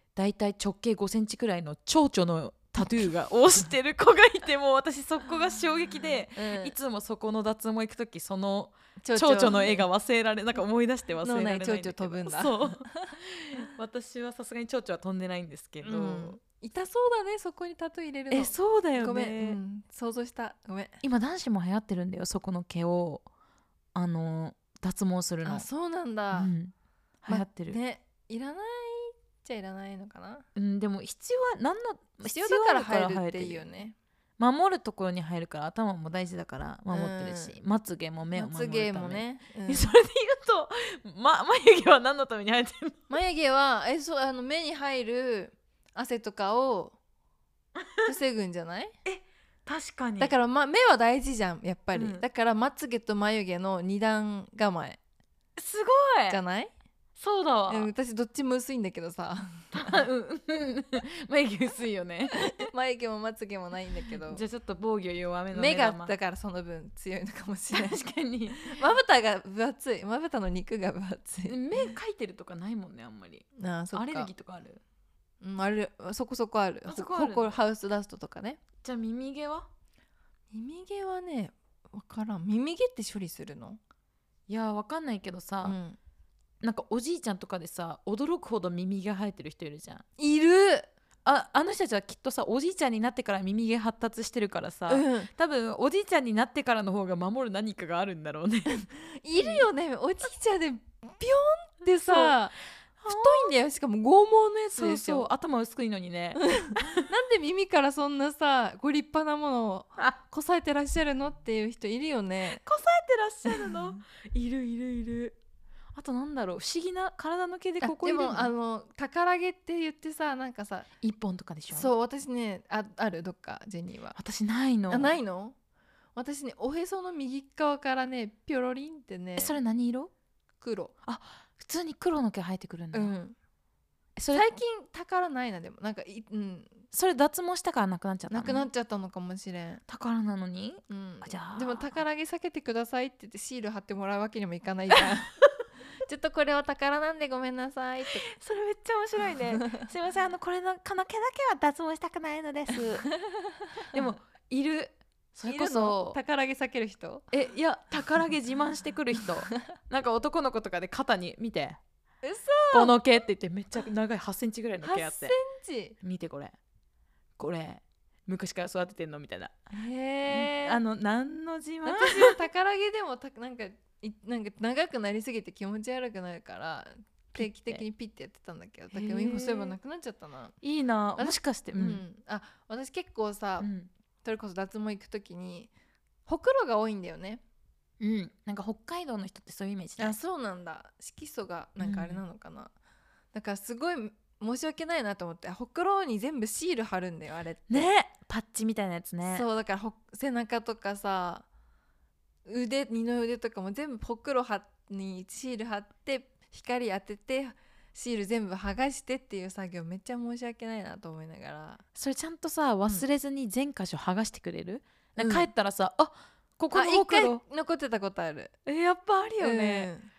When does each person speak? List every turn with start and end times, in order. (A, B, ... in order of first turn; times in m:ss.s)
0:00.1-0:16.4 A
0:06.4-0:06.7 B
0:09.0-0:09.9 B
0:11.2-0:13.2 B
0:15.8-0:21.0 B
0:18.3-0:19.6 A
0:21.0-0:23.2 A
0:23.9-0:25.6 A
0:25.4-0:26.5 B
0:26.3-0:26.7 A
0:27.2-0:27.8 A
0:27.3-0:30.4 B
0:30.5-0:33.6 A
0:32.2-0:34.0 B
0:34.4-0:43.0 A
0:36.9-0:37.6 B
0:38.3-0:39.9 B
0:43.1-0:47.0 B
0:47.8-0:48.0 A
0:48.0-0:48.9 B
0:49.0-0:50.3 A
0:50.2-0:55.0 B
0:51.9-0:52.2 A
0:55.6-0:56.4 A
0:56.3-0:56.7 B
0:57.2-0:57.9 A
0:57.7-1:00.0 B
0:59.7-1:02.7 A
1:02.4-1:04.4 B
1:04.3-1:06.1 A
1:05.5-1:08.0 B
1:07.7-1:08.8 A
1:08.6-1:11.6 B
1:11.4-1:14.8 A
1:13.6-1:14.3 B
1:15.4-1:18.6 B
1:16.9-1:17.5 A
1:18.8-1:19.7 A
1:20.5-1:23.8 B
1:24.5-1:25.8 A
1:25.6-1:26.0 B
1:26.6-1:30.0 A
1:30.2-1:30.9 B
1:31.2-1:38.8 A
1:34.9-1:35.3 B
1:39.2-1:42.5 B
1:39.4-1:39.6 A
1:42.0-1:42.4 A
1:43.0-1:43.5 A
1:43.1-1:45.3 B
1:44.7-1:47.1 A
1:46.4-1:52.6 B
1:52.6-1:55.4 A
1:53.5-1:54.0 B
1:55.9-1:58.5 A
1:57.8-2:00.9 B
2:01.0-2:01.9 A
2:01.7-2:04.2 B
2:04.1-2:05.1 A
2:04.9-2:05.5 B
2:06.2-2:09.6 B
2:09.4-2:10.1 A
2:10.6-2:10.9 B
2:11.0-2:13.1 A
2:12.9-2:13.4 B
2:14.2-2:14.5 A
2:14.3-2:16.8 B
2:16.9-2:18.6 A
2:18.3-2:19.8 B
2:19.9-2:22.0 A
2:20.9-2:25.3 B
2:26.0-2:28.3 B
2:28.2-2:33.1 A
2:29.5-2:29.8 B
2:33.2-2:34.0 B
2:33.9-2:36.2 A
2:35.4-2:37.3 B
2:37.3-2:41.8 A
2:42.2-2:42.9 B
2:42.7-2:45.4 A
2:44.8-2:46.0 B
2:46.0-2:46.5 A
2:47.4-2:49.6 A
2:49.7-2:50.8 B
2:50.3-2:52.4 A
2:51.8-3:00.5 B
2:57.3-2:57.8 A
2:58.9-2:59.7 A
3:00.6-3:02.0 A
3:01.2-3:03.7 B
3:03.6-3:03.9 A
3:04.2-3:05.7 B
3:06.2-3:07.4 B
3:08.0-3:10.2 A
3:10.0-3:12.7 B
3:11.8-3:12.2 A
3:13.3-3:17.9 B
3:17.7-3:19.4 A
3:19.2-3:21.4 B
3:22.4-3:31.8 B
3:32.0-3:37.4 A
3:35.2-3:35.5 B
3:36.7-3:38.5 B
3:38.6-3:39.9 A
3:39.4-3:40.1 B